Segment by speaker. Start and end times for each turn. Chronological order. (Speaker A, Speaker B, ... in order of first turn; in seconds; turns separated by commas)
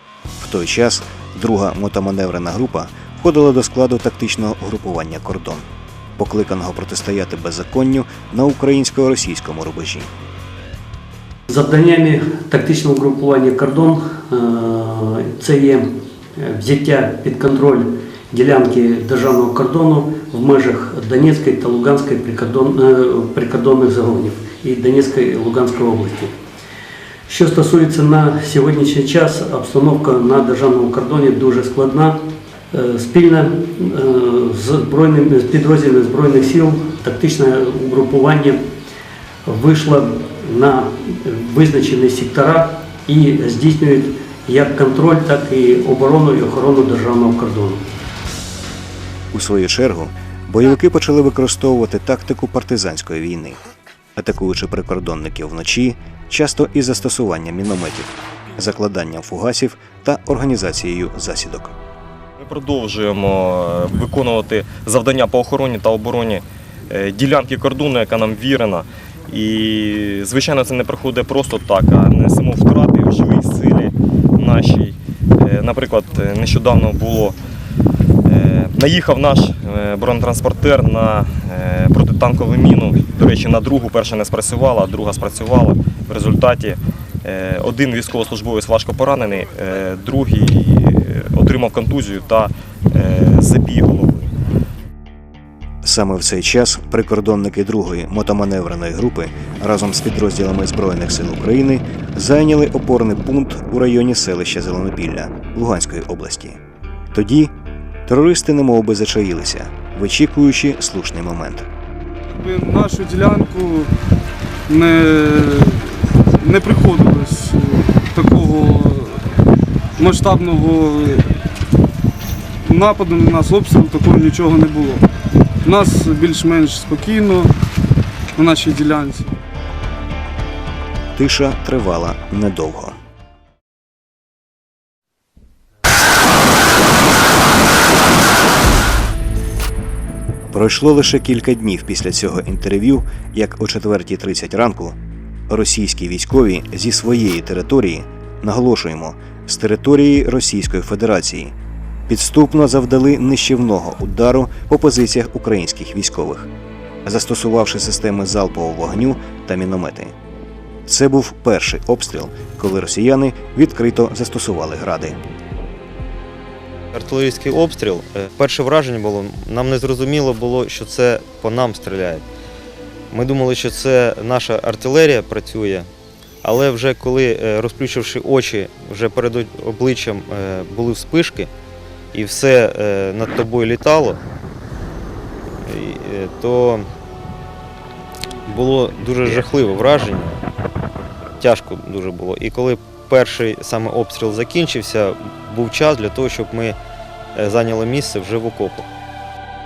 Speaker A: 0.4-5.7, Speaker A: 6.2-10.1, Speaker B: 11.5-26.4, Speaker B: 27.3-38.6, Speaker B: 39.5-47.9, Speaker A: 49.3-53.6, Speaker A: 54.2-61.8, Speaker C: 62.4-77.4, Speaker C: 78.3-94.3, Speaker A: 95.8-106.6, Speaker A: 107.1-107.5, Speaker A: 108.1-111.7, Speaker D: 112.3-113.9, Speaker D: 114.7-119.2, Speaker D: 120.0-121.2, Speaker D: 122.7-125.0, Speaker D: 125.6-127.5, Speaker D: 128.4-129.3, Speaker A: 131.2-133.0, Speaker A: 140.5-145.0, Speaker A: 145.5-151.5, Speaker A: 152.1-156.5, Speaker A: 157.1-160.1, Speaker A: 160.9-165.2, Speaker E: 166.9-172.2, Speaker E: 173.1-175.9, Speaker E: 176.4-181.5, Speaker E: 182.1-184.2, Speaker E: 185.6-186.9, Speaker E: 188.5-190.4, Speaker E: 191.4-196.8, Speaker E: 197.3-198.9